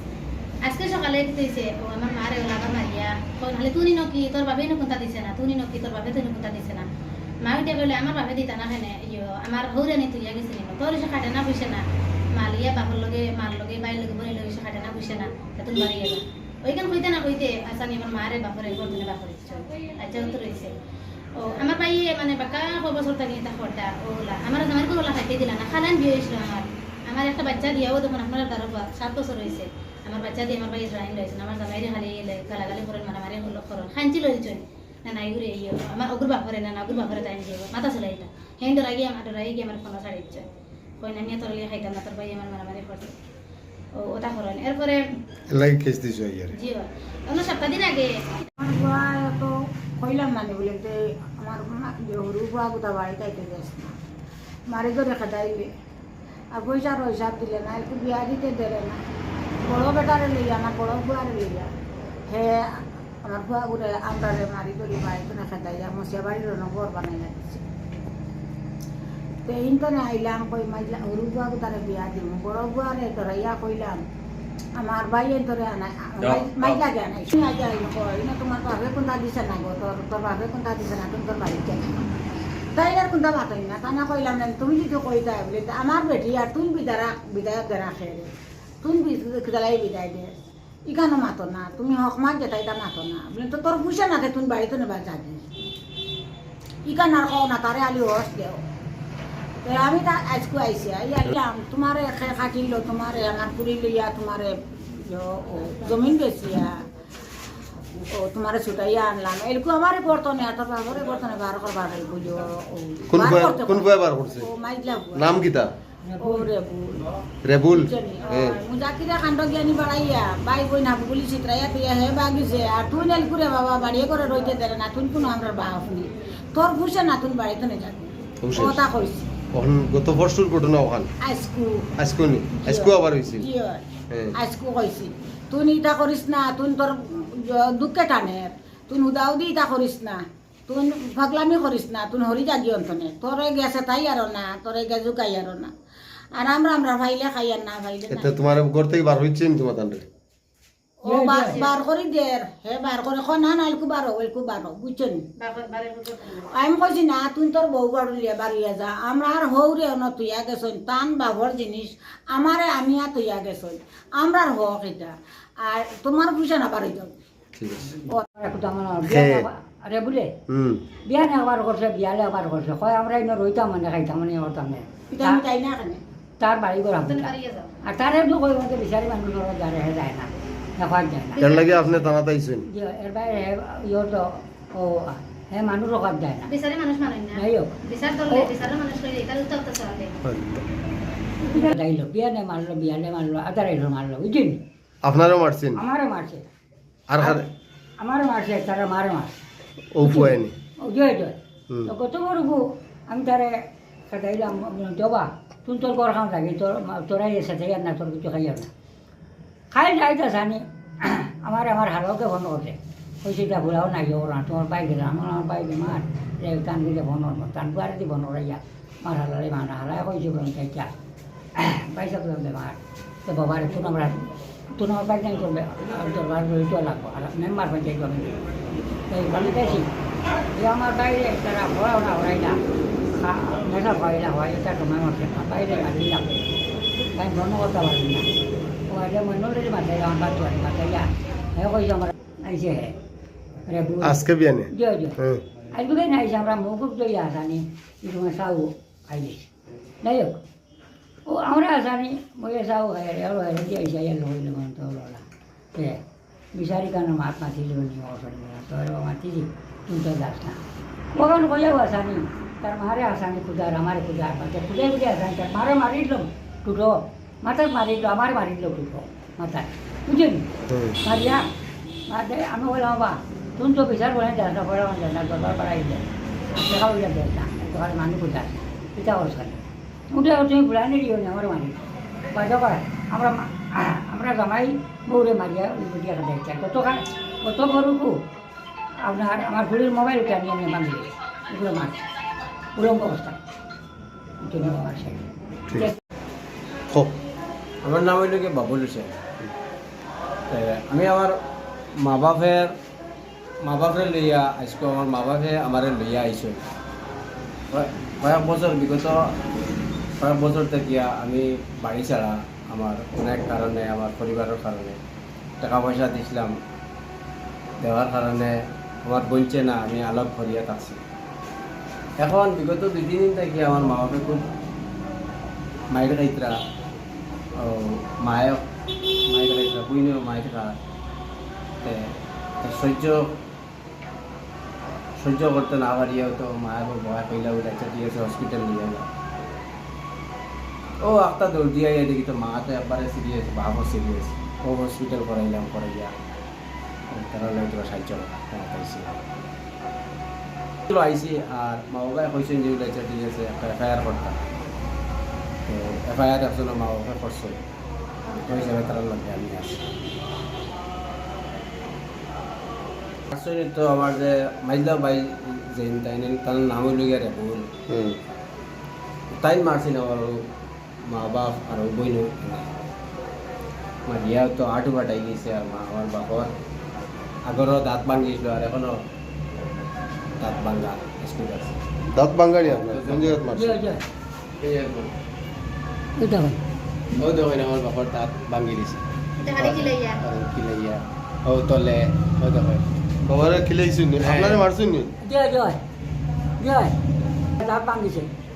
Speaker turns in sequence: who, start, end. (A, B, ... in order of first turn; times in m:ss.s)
0:00.7-0:06.9 A
0:07.4-0:11.8 A
0:12.4-0:20.8 A
0:21.4-0:40.5 A
0:41.0-0:43.1 A
0:44.0-0:45.0 A
0:45.5-0:46.5 B
0:46.6-0:48.3 A
0:48.6-0:53.9 C
0:54.7-0:55.7 C
0:56.5-0:59.0 C
0:59.6-1:01.7 C
1:02.3-1:07.6 C
1:09.5-1:14.0 C
1:14.8-1:22.1 C
1:16.2-1:16.8 D
1:22.8-1:28.3 C
1:28.8-1:35.5 C
1:36.9-1:38.6 C
1:39.6-1:46.8 C
1:48.1-1:55.5 C
1:53.1-1:54.5 B
1:55.1-1:55.7 B
1:56.0-1:56.5 E
1:56.2-1:57.0 C
1:57.4-1:58.6 B
1:57.7-2:09.3 C
2:08.4-2:08.8 B
2:09.5-2:11.1 B
2:11.2-2:11.9 C
2:12.0-2:13.5 B
2:12.6-2:25.7 C
2:14.1-2:14.4 B
2:26.4-2:28.3 C
2:28.1-2:30.1 B
2:31.0-2:35.2 C
2:31.0-2:31.7 E
2:31.4-2:31.8 A
2:35.4-2:36.5 A
2:36.5-2:47.1 C
2:47.6-2:47.9 B
2:48.3-2:50.4 E
2:49.0-2:49.5 B
2:50.5-2:50.8 B
2:51.1-2:55.4 E
2:55.1-2:56.0 C
2:56.4-2:57.3 E
2:57.0-2:57.7 A
2:57.8-3:01.6 E
3:01.4-3:02.7 B
3:02.7-3:06.5 E
3:06.5-3:10.2 A
3:07.4-3:07.8 E
3:10.2-3:10.7 B
3:11.4-3:14.6 E
3:15.0-3:15.8 B
3:15.8-3:16.5 E
3:17.1-3:17.5 B
3:18.0-3:19.4 E
3:19.9-3:20.5 B
3:20.0-3:28.7 E
3:29.7-3:40.9 E
3:41.6-3:44.2 E
3:44.8-3:48.4 E
3:49.1-3:49.9 E
3:50.5-3:56.5 E
3:57.1-3:58.3 E
3:58.9-4:03.0 E
4:03.7-4:05.2 E
4:04.0-4:05.4 B
4:05.7-4:09.5 E
4:10.0-4:10.4 E
4:11.3-4:15.2 E
4:15.8-4:16.0 E
4:16.6-4:20.6 E
4:21.2-4:30.5 E
4:30.7-4:31.0 B
4:31.0-4:31.5 E
4:32.1-4:41.8 E
4:42.3-4:48.2 E
4:49.1-4:52.0 E
4:52.8-4:53.4 E
4:54.4-4:56.0 E
4:57.8-4:59.2 D
5:00.5-5:01.4 D
5:02.0-5:02.7 D
5:03.6-5:06.6 D
5:07.7-5:09.3 D
5:10.2-5:15.0 D
5:15.6-5:16.6 D
5:17.8-5:21.0 D
5:22.2-5:24.4 D
5:25.9-5:26.6 D
5:27.6-5:28.6 D
5:29.3-5:30.8 D
5:31.8-5:33.4 D
5:35.2-5:39.1 D
5:41.0-5:46.1 D
5:47.1-5:49.2 D
5:50.9-5:54.4 D
5:55.7-5:57.6 D
5:58.3-5:58.7 A
5:58.5-5:59.8 D
6:03.3-6:07.7 D
6:07.9-6:08.2 B
6:09.3-6:10.4 D
6:11.1-6:12.7 D
6:14.1-6:16.5 D
6:17.5-6:19.0 D
6:20.4-6:21.8 D
6:22.1-6:23.8 B
6:22.6-6:23.4 D
6:23.6-6:24.0 E
6:24.6-6:25.1 D
6:26.2-6:26.6 E
6:27.2-6:29.0 D
6:29.4-6:30.2 A
6:29.6-6:32.8 D
6:33.2-6:35.1 B
6:34.2-6:34.7 D
6:35.2-6:35.8 E
6:36.6-6:37.0 E
6:37.6-6:38.3 E